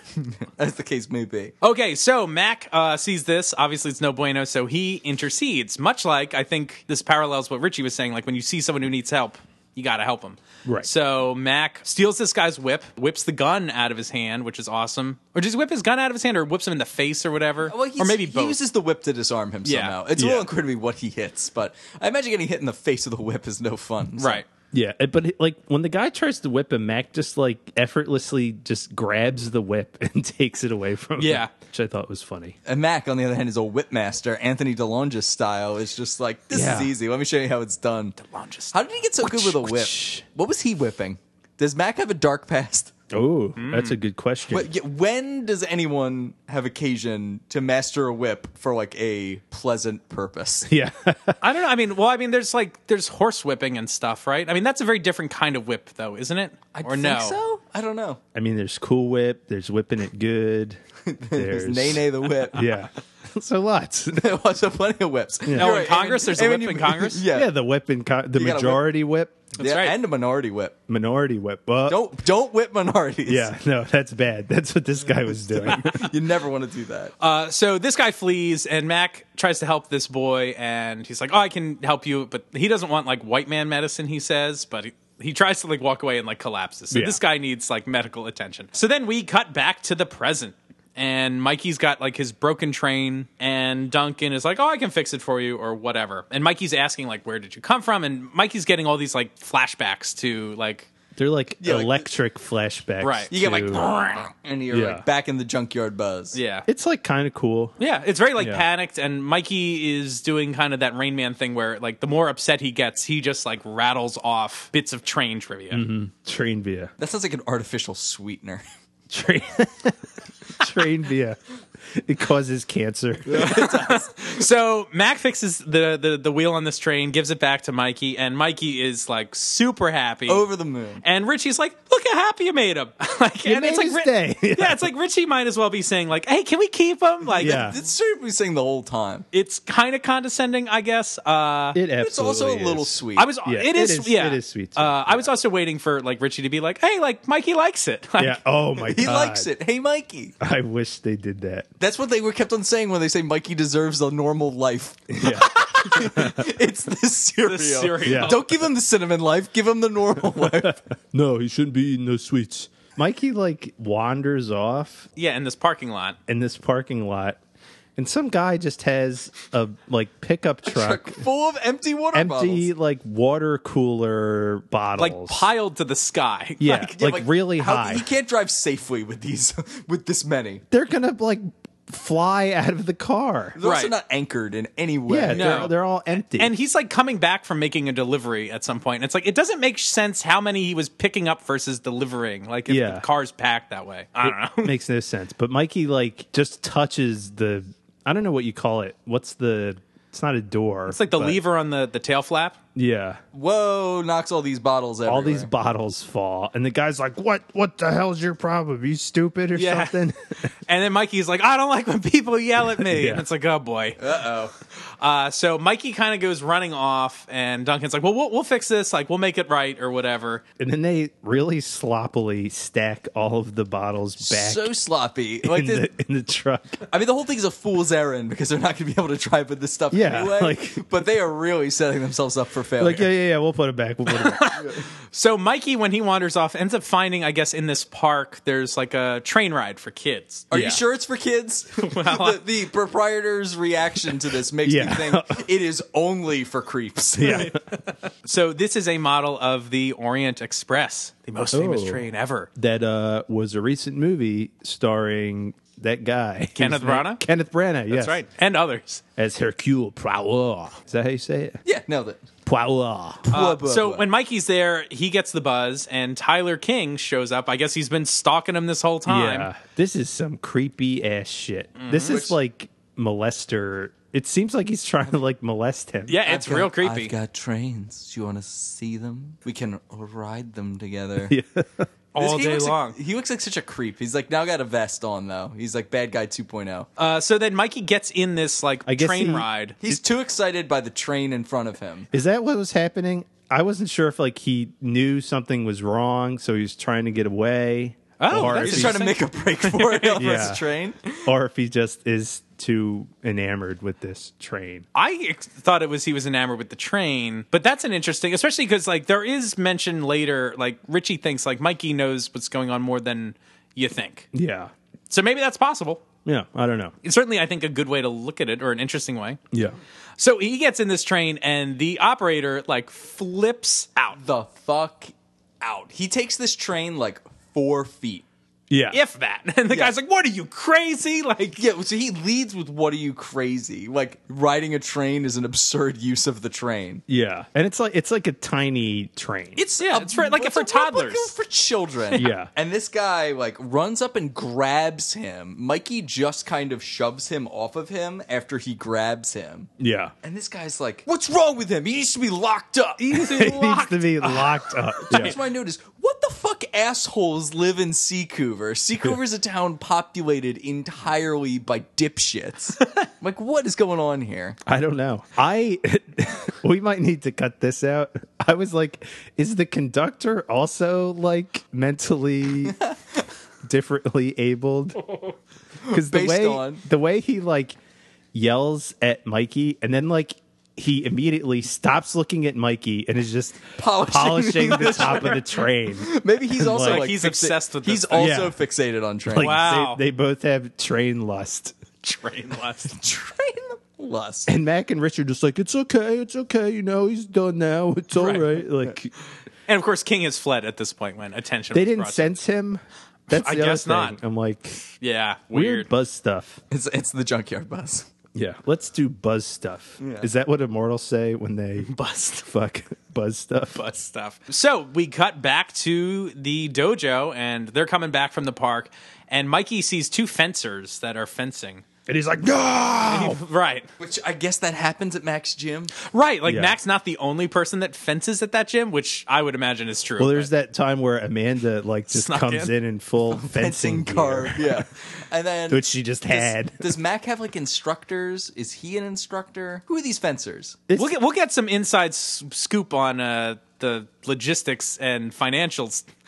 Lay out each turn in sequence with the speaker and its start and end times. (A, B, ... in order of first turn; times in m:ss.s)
0:00.4-0:01.5 A
0:01.6-0:18.6 B
0:17.6-0:24.4 A
0:19.6-0:20.0 B
0:20.2-0:20.5 C
0:24.2-0:24.4 B
0:24.7-0:32.6 C
0:31.2-0:31.5 B
0:32.6-0:38.2 A
0:36.5-0:36.9 C
0:38.2-0:38.7 B
0:38.7-0:42.9 A
0:39.2-0:40.2 C
0:43.1-0:44.7 C
0:43.6-0:44.0 B
0:44.5-0:50.7 A
0:50.6-0:51.4 C
0:51.4-0:57.4 B
0:56.7-0:58.2 A
0:58.3-1:00.8 C
1:01.1-1:02.6 A
1:01.3-1:04.3 C
1:04.1-1:07.5 A
1:05.4-1:05.8 C
1:05.5-1:07.2 B
1:07.3-1:09.4 C
1:08.4-1:08.8 A
1:09.6-1:10.0 B
1:09.6-1:10.8 A
1:10.9-1:12.0 C
1:11.9-1:13.5 A
1:13.2-1:16.1 C
1:15.4-1:17.1 A
1:17.2-1:40.9 B
1:26.9-1:27.2 C
1:41.2-1:43.9 C
1:41.6-1:42.0 A
1:43.0-1:43.3 B
1:43.3-1:46.4 A
1:44.7-1:45.0 C
1:46.3-1:46.7 B
1:46.7-1:47.8 C
1:47.8-1:55.8 B
1:48.4-1:48.6 C
1:55.7-1:56.9 C
1:57.0-1:58.6 A
1:59.1-2:00.0 C
2:00.6-2:01.4 C
2:01.9-2:03.6 C
2:03.2-2:04.4 A
2:03.3-2:10.4 B
2:10.3-2:11.0 A
2:11.0-2:17.7 B
2:13.4-2:14.9 C
2:17.4-2:19.2 A
2:17.4-2:17.8 C
2:19.3-2:21.8 B
2:21.7-2:25.3 C
2:22.0-2:23.3 A
2:23.2-2:28.4 B
2:28.2-2:29.5 C
2:28.8-2:30.4 A
2:30.4-2:31.7 C
2:31.8-2:40.8 A
2:35.1-2:36.5 C
2:35.5-2:35.9 B
2:37.4-2:38.5 B
2:38.0-2:38.4 C
2:40.4-2:45.1 C
2:45.2-2:46.2 B
2:46.3-2:47.4 C
2:48.0-2:51.2 C
2:50.6-2:52.7 A
2:52.1-2:55.5 C
2:55.0-2:57.0 B
2:56.6-2:58.0 C
2:57.0-3:00.6 A
3:00.7-3:03.6 C
3:03.6-3:05.7 A
3:03.6-3:03.9 B
3:05.1-3:06.5 C
3:05.3-3:05.7 B
3:06.3-3:14.7 B
3:12.7-3:13.0 C
3:14.2-3:21.4 C
3:20.9-3:22.6 B
3:22.7-3:23.2 C
3:23.3-3:25.5 A
3:25.1-3:30.5 C
3:29.5-3:30.0 B
3:30.6-3:34.0 B
3:32.6-3:33.2 C
3:34.0-3:34.5 A
3:34.8-3:40.4 B
3:40.6-3:44.7 C
3:44.2-3:45.9 A
3:45.4-3:46.8 C
3:46.9-3:53.1 A
3:49.9-3:50.8 C
3:52.8-3:54.6 C
3:54.2-4:00.4 B
4:00.5-4:07.5 A
4:00.5-4:00.8 C
4:01.8-4:02.4 B
4:04.6-4:05.4 C
4:07.2-4:07.6 C
4:07.3-4:12.5 B
4:11.5-4:12.0 C
4:12.5-4:18.2 C
4:16.6-4:17.2 B
4:17.9-4:19.0 B
4:19.2-4:21.6 C
4:21.6-4:22.2 A
4:22.4-4:23.3 C
4:23.3-4:24.1 A
4:23.3-4:29.5 B
4:29.0-4:36.2 C
4:31.8-4:32.2 B
4:32.0-4:32.4 A
4:36.1-4:37.1 B
4:36.2-4:41.3 A
4:41.3-4:41.9 C
4:42.1-4:43.0 B
4:42.2-4:46.9 A
4:47.0-4:49.8 B
4:48.8-4:50.0 C
4:49.8-4:52.1 A
4:52.1-4:59.1 C
4:58.2-5:00.2 B
4:58.3-5:01.3 A
5:00.2-5:00.6 C
5:01.2-5:04.8 C
5:04.9-5:14.3 B
5:14.3-5:14.7 C
5:15.1-5:16.0 B
5:16.2-5:16.9 C
5:17.0-5:19.4 B
5:19.5-5:19.8 C
5:20.2-5:24.2 B
5:24.1-5:28.2 A
5:28.7-5:29.0 C
5:28.9-5:31.6 B
5:31.6-5:37.0 A
5:37.1-5:39.6 C
5:39.6-5:41.3 B
5:39.6-5:49.7 A
5:42.2-5:42.5 C
5:49.8-5:50.1 C
5:50.2-5:53.9 A
5:53.0-5:55.3 B
5:53.1-5:55.4 C
5:55.1-6:04.6 A
6:04.6-6:12.8 C
6:12.7-6:13.0 A
6:13.6-6:15.0 C
6:15.8-6:16.8 A
6:15.9-6:17.8 C
6:18.3-6:27.1 C
6:23.8-6:25.4 A
6:24.6-6:25.4 B
6:26.0-6:29.6 A
6:26.7-6:28.3 B
6:28.2-6:28.6 C
6:29.2-6:31.8 C
6:29.4-6:30.0 B
6:32.0-6:32.9 B
6:32.9-6:34.5 A
6:34.5-6:39.1 C
6:38.2-6:38.6 B
6:39.7-6:42.4 B
6:41.7-6:44.8 C
6:43.3-6:44.2 B
6:45.0-6:45.9 B
6:45.5-6:46.6 C
6:46.7-6:48.1 A
6:48.3-6:51.9 C
6:50.0-6:50.3 A
6:51.8-6:52.5 B
6:52.4-6:53.8 C
6:53.7-7:01.8 B
7:02.1-7:03.4 C
7:03.0-7:03.9 B
7:04.0-7:05.9 A
7:06.0-7:10.5 B
7:06.4-7:06.8 C
7:10.2-7:14.9 C
7:12.1-7:12.7 B
7:13.3-7:20.8 A
7:15.7-7:16.9 C
7:20.9-7:21.1 C
7:21.0-7:26.1 B